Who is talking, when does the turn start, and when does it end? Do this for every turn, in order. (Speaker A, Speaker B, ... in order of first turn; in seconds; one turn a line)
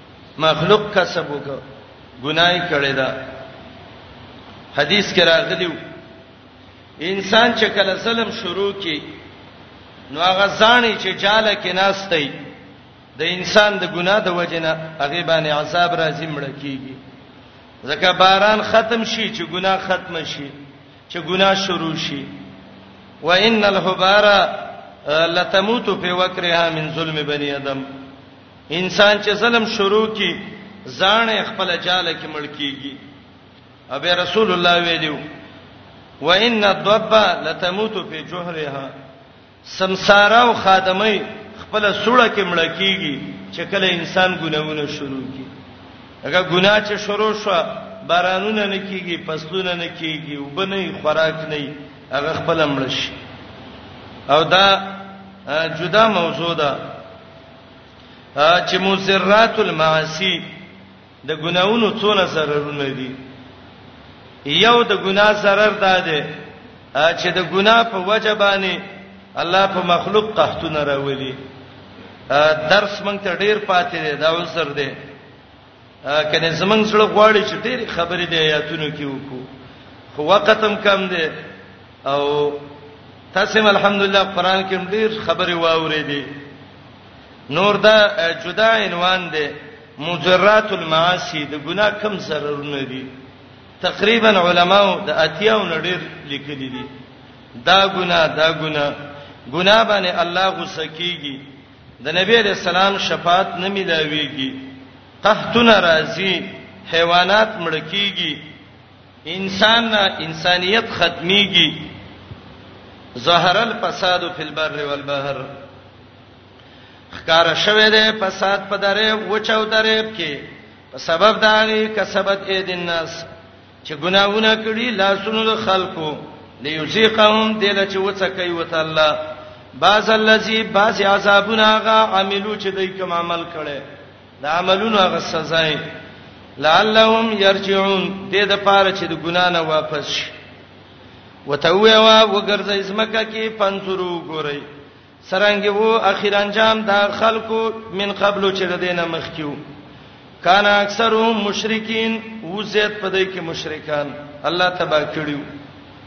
Speaker A: 0.4-1.6
Speaker A: 2.2-3.1
Speaker A: 4.7-5.8
Speaker A: 7.0-9.0
Speaker A: 10.1-12.3
Speaker A: 13.2-17.0
Speaker A: 17.9-20.5
Speaker A: 21.1-22.3
Speaker A: 23.2-27.8
Speaker A: 28.7-33.0
Speaker A: 33.9-35.2
Speaker A: 36.2-38.9
Speaker A: 39.7-45.5
Speaker A: 46.2-53.2
Speaker A: 54.3-56.8
Speaker A: 58.4-60.4
Speaker A: 61.2-63.1
Speaker A: 64.5-66.3
Speaker A: 67.0-68.8
Speaker A: 69.4-71.4
Speaker A: 72.3-75.0
Speaker A: 76.1-79.5
Speaker A: 80.1-81.3
Speaker A: 82.1-82.7
Speaker A: 83.3-86.3
Speaker A: 87.5-93.1
Speaker A: 93.8-96.9
Speaker A: 97.6-98.9
Speaker A: 99.5-101.4
Speaker A: 102.0-104.6
Speaker A: 105.2-108.4
Speaker A: 109.3-111.8
Speaker A: 113.2-115.5
Speaker A: 117.1-123.3
Speaker A: 123.8-129.2
Speaker A: 129.8-133.8
Speaker A: 134.4-135.8
Speaker A: 136.6-140.3
Speaker A: 141.5-144.7
Speaker A: 145.2-149.6
Speaker A: 150.4-155.4